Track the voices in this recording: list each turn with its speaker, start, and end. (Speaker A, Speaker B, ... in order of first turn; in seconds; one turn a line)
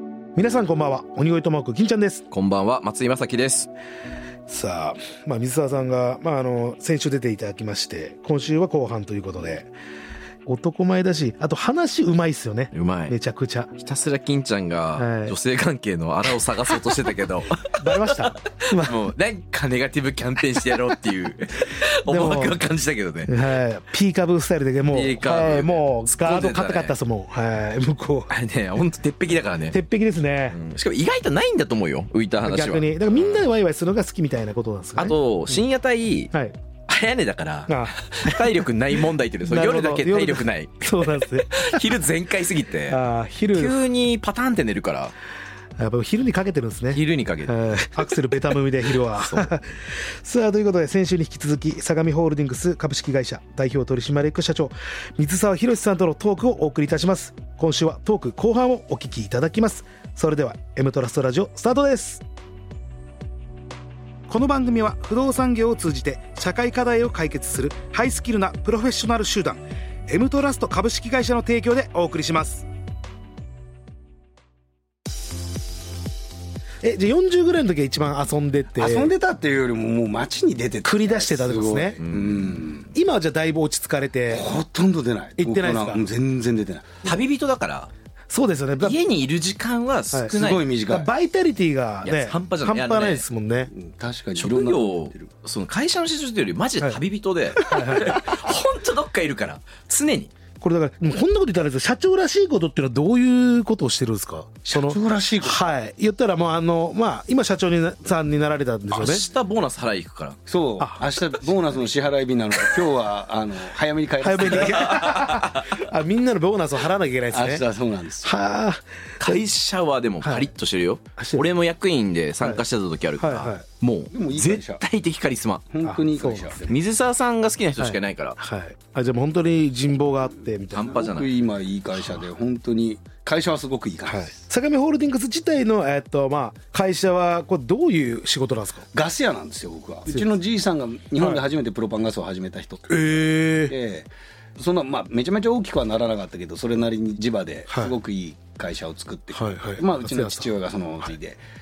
Speaker A: 0.3-2.2
Speaker B: 2.3-3.7
Speaker A: 4.5-9.7
Speaker A: 10.4-13.7
Speaker B: 12.7-13.1
Speaker B: 13.8-23.3
Speaker A: 15.0-15.3
Speaker A: 17.8-19.1
Speaker A: 22.1-22.6
Speaker A: 23.3-28.3
Speaker B: 24.9-26.9
Speaker B: 28.3-29.8
Speaker A: 29.7-30.6
Speaker B: 30.5-33.5
Speaker A: 32.4-35.2
Speaker B: 35.0-36.3
Speaker B: 36.9-43.0
Speaker A: 37.7-38.5
Speaker A: 39.4-41.8
Speaker A: 42.9-43.8
Speaker B: 43.5-45.1
Speaker A: 45.8-62.2
Speaker B: 46.9-48.1
Speaker B: 49.0-49.5
Speaker A: 64.3-72.7
Speaker A: 76.8-79.1
Speaker C: 78.8-82.9
Speaker A: 80.8-82.0
Speaker B: 82.0-82.6
Speaker A: 82.9-84.5
Speaker C: 84.3-87.0
Speaker A: 85.4-86.1
Speaker B: 87.0-87.9
Speaker A: 88.3-89.0
Speaker B: 88.8-90.7
Speaker C: 90.3-91.1
Speaker A: 90.9-93.7
Speaker B: 92.0-93.2
Speaker C: 93.7-95.3
Speaker B: 94.3-100.3
Speaker A: 97.5-98.2
Speaker A: 100.6-109.2
Speaker C: 104.7-105.6
Speaker B: 108.9-110.4
Speaker C: 110.5-115.1
Speaker A: 114.2-117.6
Speaker B: 114.7-115.8
Speaker C: 117.3-118.3
Speaker A: 118.2-119.4
Speaker B: 119.2-125.6
Speaker A: 120.2-120.5
Speaker A: 121.2-121.5
Speaker A: 123.2-123.6
Speaker C: 124.1-124.8
Speaker C: 125.7-126.8
Speaker A: 125.8-126.6
Speaker B: 126.7-128.4
Speaker A: 127.8-131.1
Speaker B: 130.7-131.3
Speaker C: 130.9-134.3
Speaker A: 134.1-138.8
Speaker C: 138.9-151.4
Speaker A: 142.9-143.7
Speaker A: 149.3-150.5